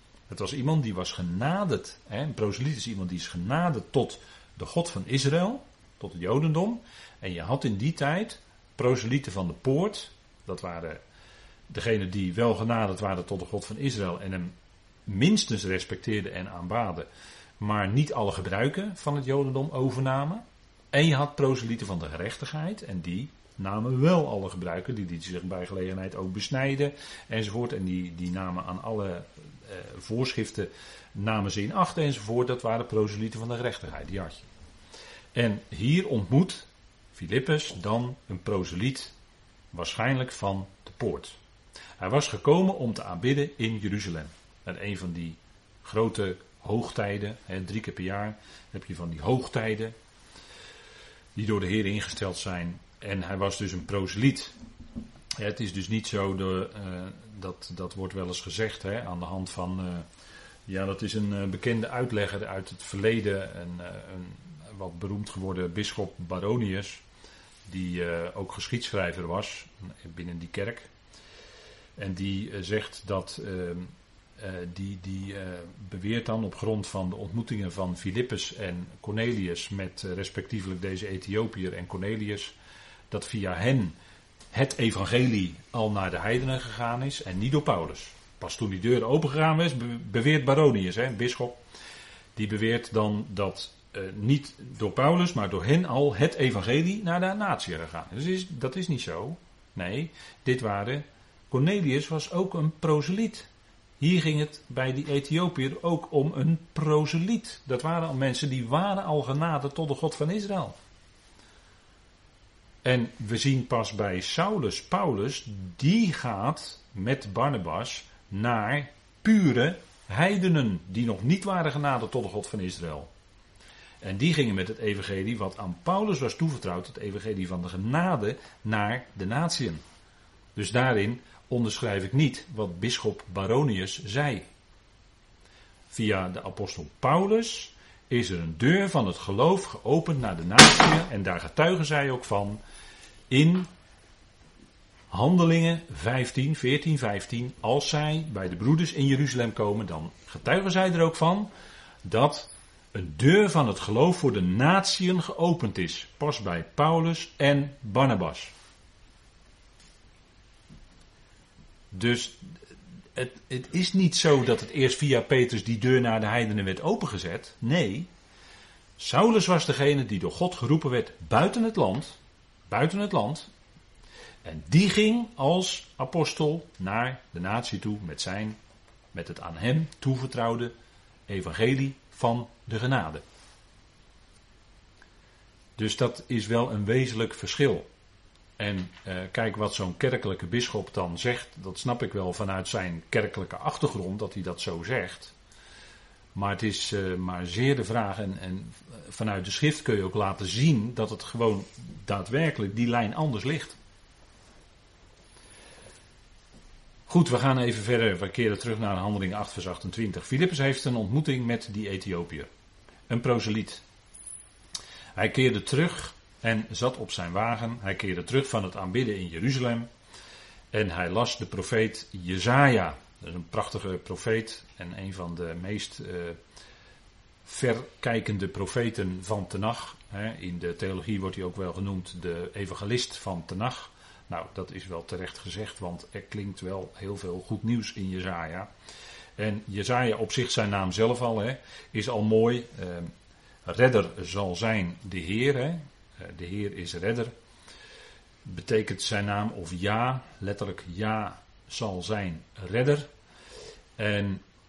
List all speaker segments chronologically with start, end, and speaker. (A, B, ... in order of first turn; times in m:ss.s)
0:00.3-0:11.0 A
0:11.7-0:14.5 A
0:15.0-0:17.1 A
0:17.6-0:34.5 A
0:35.3-0:39.1 A
0:39.7-0:41.4 A
0:42.0-0:49.9 A
0:51.3-0:54.5 A
0:55.4-1:00.0 A
1:00.7-1:07.0 A
1:07.6-1:10.9 A
1:12.0-1:22.5 A
1:23.1-1:24.0 A
1:24.5-1:31.6 A
1:32.4-1:50.8 A
1:52.8-2:03.1 A
2:04.0-2:09.8 A
2:10.6-2:14.4 A
2:15.9-2:22.6 A
2:23.3-2:23.7 A
2:25.1-2:31.5 A
2:32.0-2:38.5 A
2:41.9-2:42.6 A
2:43.1-2:48.1 A
2:49.0-2:53.5 A
2:54.4-2:58.6 A
2:59.1-3:00.7 A
3:01.3-3:03.2 A
3:05.8-3:07.9 A
3:08.6-3:15.3 A
3:16.3-3:23.7 A
3:27.1-3:32.5 A
3:33.1-3:33.8 A
3:35.2-3:39.9 A
3:40.7-3:46.4 A
3:47.4-3:58.7 A
3:59.4-4:03.1 A
4:03.6-4:07.3 A
4:08.4-4:13.1 A
4:14.0-4:14.4 A